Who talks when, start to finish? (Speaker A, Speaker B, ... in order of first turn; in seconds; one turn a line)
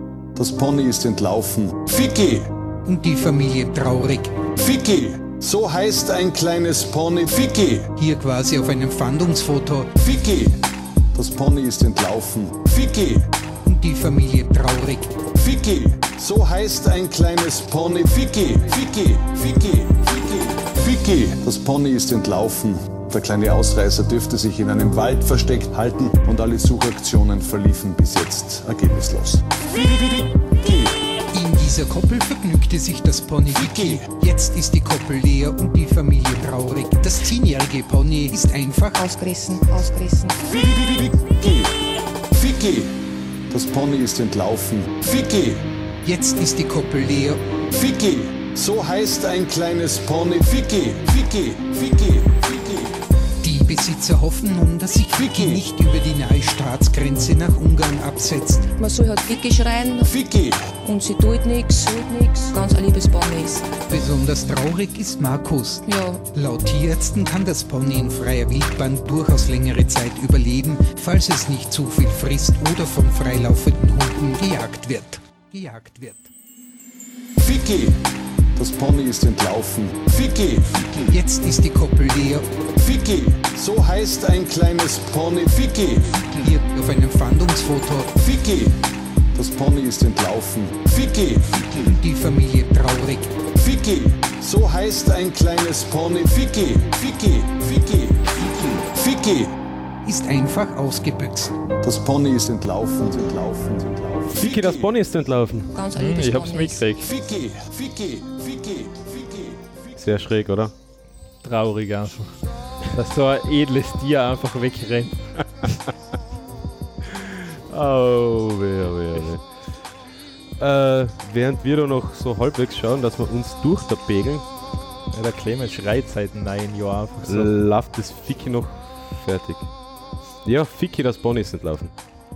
Speaker A: 0.3-2.5
Speaker B: 2.8-4.3
Speaker A: 4.5-8.0
Speaker B: 7.9-10.0
Speaker A: 9.9-10.6
Speaker A: 11.1-13.3
Speaker B: 13.6-15.2
Speaker A: 15.2-30.9
Speaker B: 31.3-39.0
Speaker C: 38.9-40.5
Speaker A: 40.5-41.7
Speaker A: 42.3-42.9
Speaker A: 43.5-45.6
Speaker B: 46.0-47.4
Speaker A: 47.7-52.9
Speaker B: 53.4-58.7
Speaker C: 58.7-63.7
Speaker B: 63.8-76.3
Speaker C: 65.8-66.2
Speaker A: 77.4-78.0
Speaker A: 78.5-81.0
Speaker B: 81.1-82.5
Speaker A: 82.7-86.4
Speaker B: 86.3-88.1
Speaker A: 88.2-88.8
Speaker A: 89.3-91.8
Speaker B: 91.8-93.4
Speaker A: 93.4-99.5
Speaker B: 100.0-101.5
Speaker A: 101.8-104.5
Speaker D: 104.3-105.7
Speaker C: 105.7-106.8
Speaker E: 105.9-107.1
Speaker A: 107.2-109.5
Speaker D: 109.9-110.7
Speaker E: 111.4-112.3
Speaker E: 112.9-115.4
Speaker D: 117.1-119.4
Speaker D: 120.6-124.4
Speaker E: 125.1-127.5
Speaker D: 127.2-129.7
Speaker D: 130.4-131.9